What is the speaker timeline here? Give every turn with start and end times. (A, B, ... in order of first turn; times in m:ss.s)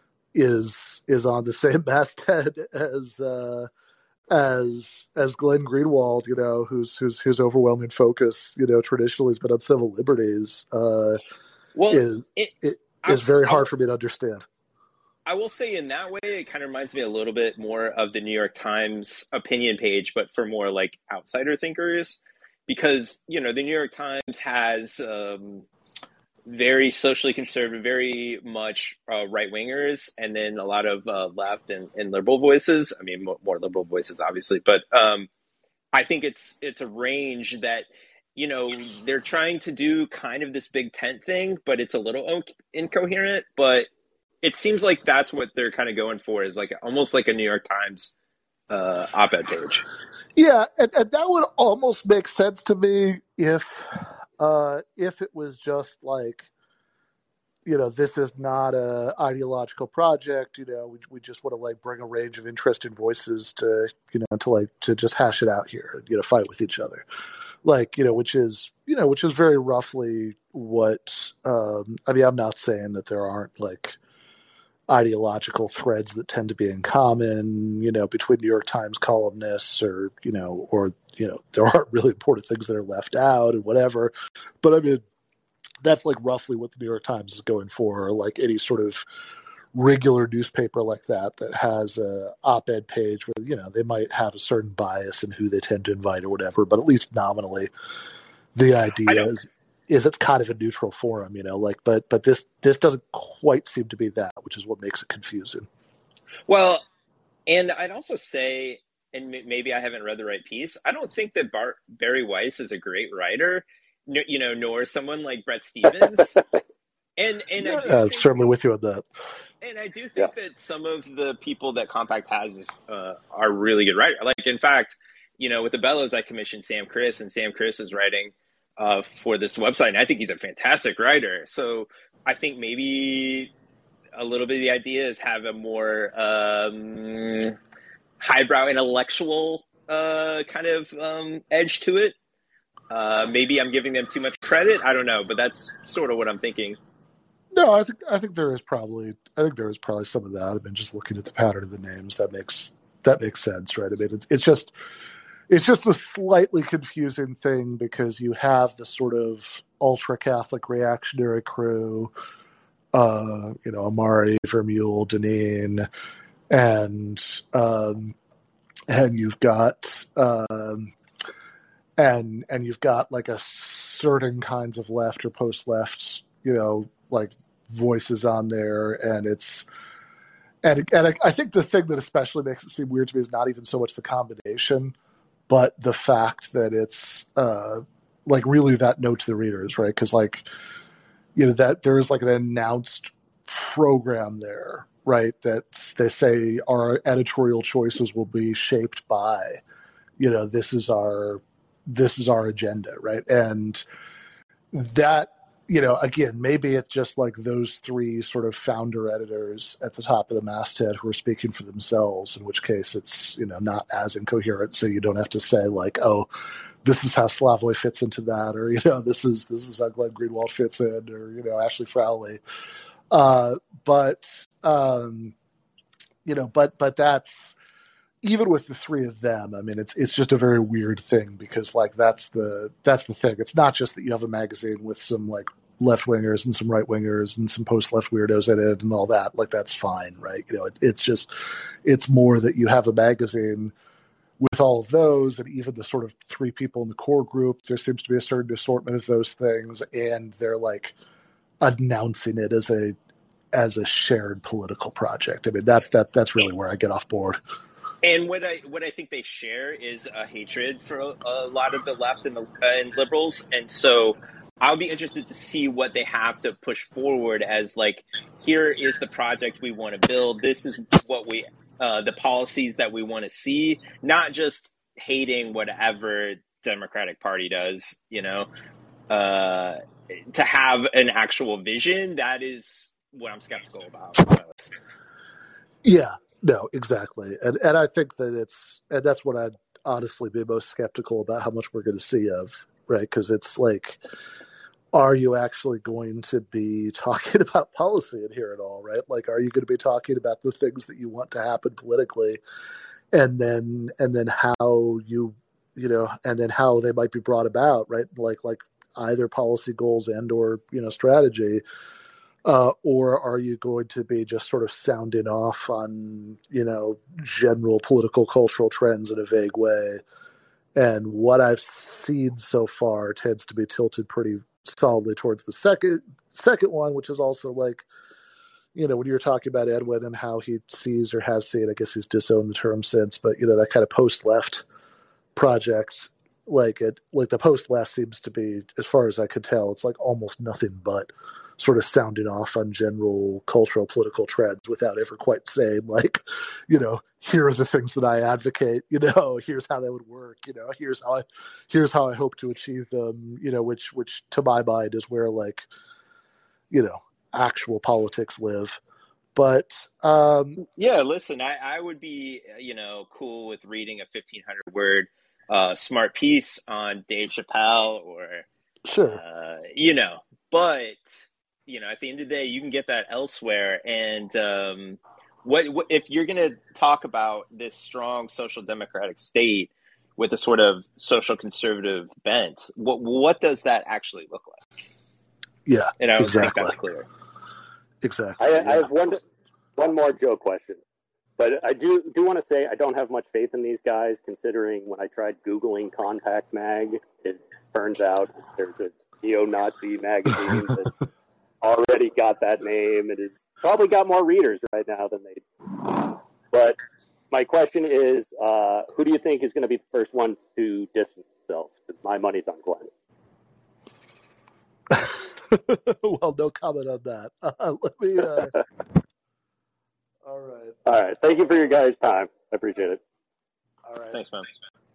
0:00.3-0:03.7 A
0:04.3-0:11.2 A
0:11.8-0:13.6 B
0:11.9-0:14.5 A
0:15.3-0:25.7 B
0:26.5-0:35.3 B
0:35.9-0:43.9 B
0:44.4-0:48.1 B
0:48.7-0:49.9 B
0:50.4-0:56.5 A
0:57.7-1:07.0 A
1:07.6-1:14.0 A
1:14.9-1:25.0 A
1:25.8-1:29.0 A
1:29.8-1:37.7 A
1:38.6-1:45.7 A
1:46.5-1:46.8 B
1:47.5-1:56.4 B
1:57.2-1:58.4 B
1:57.6-1:59.1 A
1:59.6-2:13.5 B
2:14.2-2:17.6 B
2:18.2-2:22.2 B
2:22.9-2:26.8 B
2:27.5-2:34.7 A
2:35.5-2:42.1 A
2:42.9-2:45.9 A
2:46.5-2:48.2 A
2:48.9-2:50.9 A
2:52.0-2:59.6 A
3:00.6-3:04.9 A
3:05.5-3:10.5 A
3:11.4-3:19.6 A
3:20.2-3:23.8 A
3:24.7-3:36.3 A
3:36.8-3:42.4 A
3:43.1-3:45.3 A
3:46.2-3:47.6 A
3:48.2-4:01.3 A
4:01.8-4:03.7 A
4:04.4-4:11.0 A
4:11.6-4:13.0 A
4:13.5-4:17.4 A
4:18.0-4:38.5 B
4:39.1-4:44.8 B
4:45.8-4:54.0 A
4:54.9-5:02.4 A
5:03.1-5:11.6 A
5:12.4-5:20.0 A
5:20.8-5:27.9 A
5:28.8-5:34.6 A
5:35.4-5:55.7 A
5:56.7-5:58.8 A
5:59.4-6:00.6 A
6:00.6-6:08.5 B
6:08.9-6:09.2 A
6:09.1-6:11.0 B
6:11.7-6:24.6 B
6:25.7-6:26.8 A
6:26.0-6:27.1 B
6:28.0-6:28.9 A
6:28.4-6:29.2 C
6:29.8-6:30.8 C
6:31.4-6:41.0 C
6:41.6-6:46.8 C
6:47.3-6:52.9 C
6:54.9-6:58.6 A
7:00.2-7:00.8 A
7:00.9-7:03.0 C
7:03.9-7:04.2 A
7:04.1-7:04.5 B